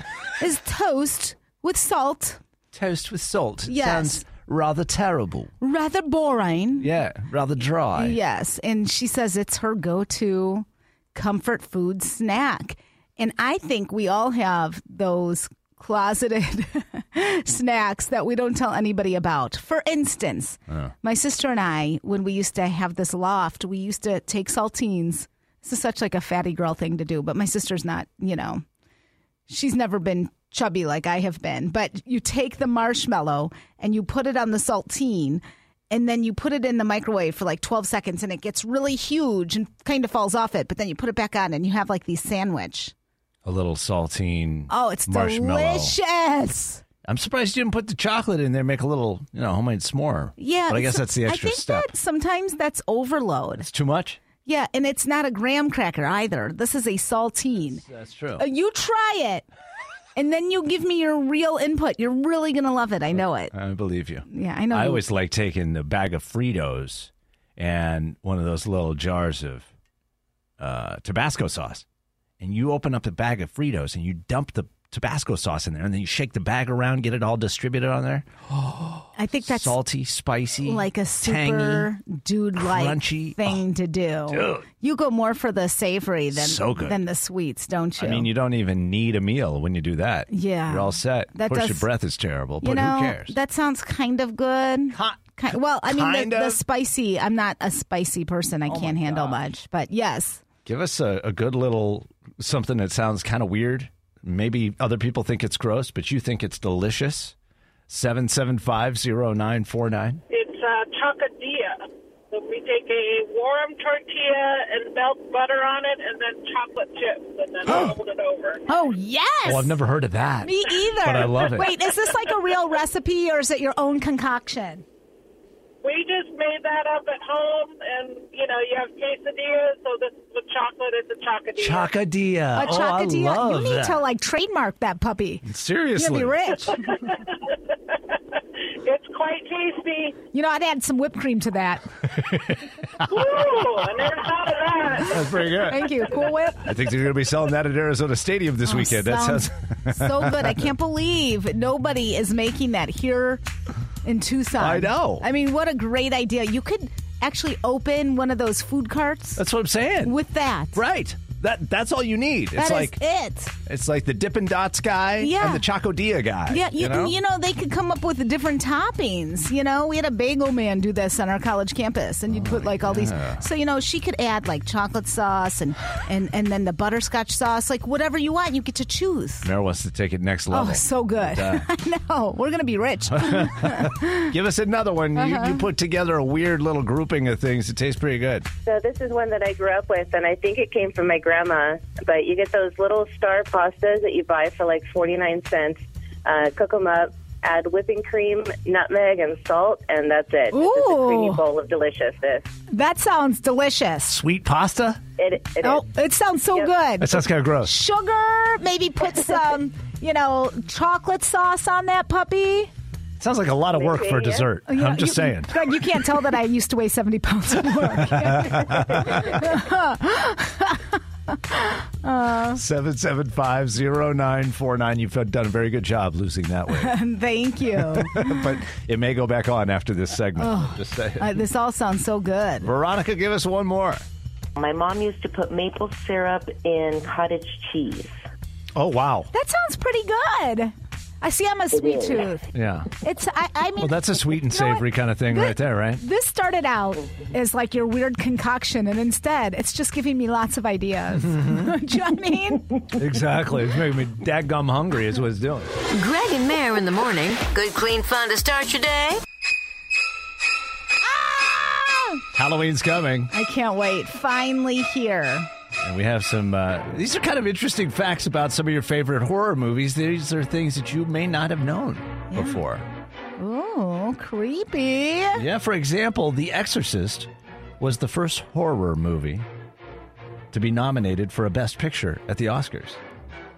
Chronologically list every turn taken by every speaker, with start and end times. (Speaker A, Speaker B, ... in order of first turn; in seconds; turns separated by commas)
Speaker A: 0.4-2.4, Speaker B: 2.7-5.5, Speaker A: 3.7-4.2, Speaker A: 5.6-6.9, Speaker B: 6.8-8.2, Speaker A: 8.0-28.6, Speaker A: 29.5-42.9, Speaker B: 43.5-45.9, Speaker A: 44.7-46.8, Speaker B: 47.0-51.9, Speaker A: 50.4-53.7, Speaker B: 53.6-54.2, Speaker A: 54.5-57.8, Speaker B: 57.8-58.5, Speaker A: 58.4-59.5, Speaker A: 60.2-63.5, Speaker B: 63.2-69.7, Speaker A: 64.3-65.0, Speaker B: 70.6-71.8, Speaker B: 72.4-81.9, Speaker A: 79.2-79.8, Speaker A: 80.7-88.3, Speaker B: 82.6-83.6, Speaker B: 84.3-84.7, Speaker B: 86.3-87.0, Speaker B: 88.0-93.3, Speaker A: 90.3-91.9, Speaker A: 92.6-100.4, Speaker B: 94.9-96.6, Speaker B: 98.7-99.4, Speaker B: 100.7-107.3, Speaker B: 107.9-110.2, Speaker C: 110.3-118.6, Speaker A: 118.7-119.8, Speaker B: 119.5-121.7, Speaker A: 120.4-124.8, Speaker C: 125.8-131.9, Speaker B: 131.6-134.0, Speaker A: 132.6-135.4, Speaker B: 135.4-136.6, Speaker A: 136.0-137.0, Speaker C: 136.9-140.2, Speaker A: 140.3-141.8, Speaker B: 142.0-143.1, Speaker C: 143.1-145.5, Speaker B: 145.0-146.0, Speaker A: 145.1-146.7, Speaker B: 146.6-150.7, Speaker A: 148.7-153.4, Speaker A: 154.1-159.4, Speaker B: 154.6-155.3, Speaker B: 159.4-160.2, Speaker A: 160.0-160.8, Speaker B: 160.7-163.0, Speaker A: 162.6-163.5, Speaker B: 163.7-167.1, Speaker A: 165.2-165.7, Speaker A: 166.5-179.5, Speaker B: 172.3-173.4, Speaker B: 179.4-181.7, Speaker A: 180.5-184.3, Speaker B: 183.1-188.5, Speaker A: 185.2-185.7, Speaker D: 188.7-202.5, Speaker A: 200.5-201.4, Speaker A: 202.7-204.2, Speaker B: 204.1-205.0, Speaker D: 205.2-205.8, Speaker A: 205.6-212.7, Speaker B: 207.0-207.8, Speaker B: 213.2-215.9, Speaker D: 213.8-214.5, Speaker A: 214.7-222.6, Speaker B: 217.8-219.5, Speaker B: 222.5-227.0, Speaker A: 226.7-228.6, Speaker B: 227.8-231.4, Speaker A: 230.4-232.7, Speaker B: 232.6-234.0, Speaker E: 234.6-238.2, Speaker B: 238.8-239.3, Speaker A: 239.3-242.4, Speaker B: 242.5-242.9, Speaker A: 243.0-252.8, Speaker B: 243.8-246.0, Speaker B: 251.2-251.7, Speaker B: 252.9-255.7, Speaker F: 255.9-259.2, Speaker A: 261.0-262.2, Speaker B: 262.3-263.3, Speaker A: 263.3-265.5, Speaker B: 265.8-272.9, Speaker A: 272.3-272.6, Speaker A: 273.4-275.4, Speaker B: 275.4-279.4, Speaker B: 280.5-283.0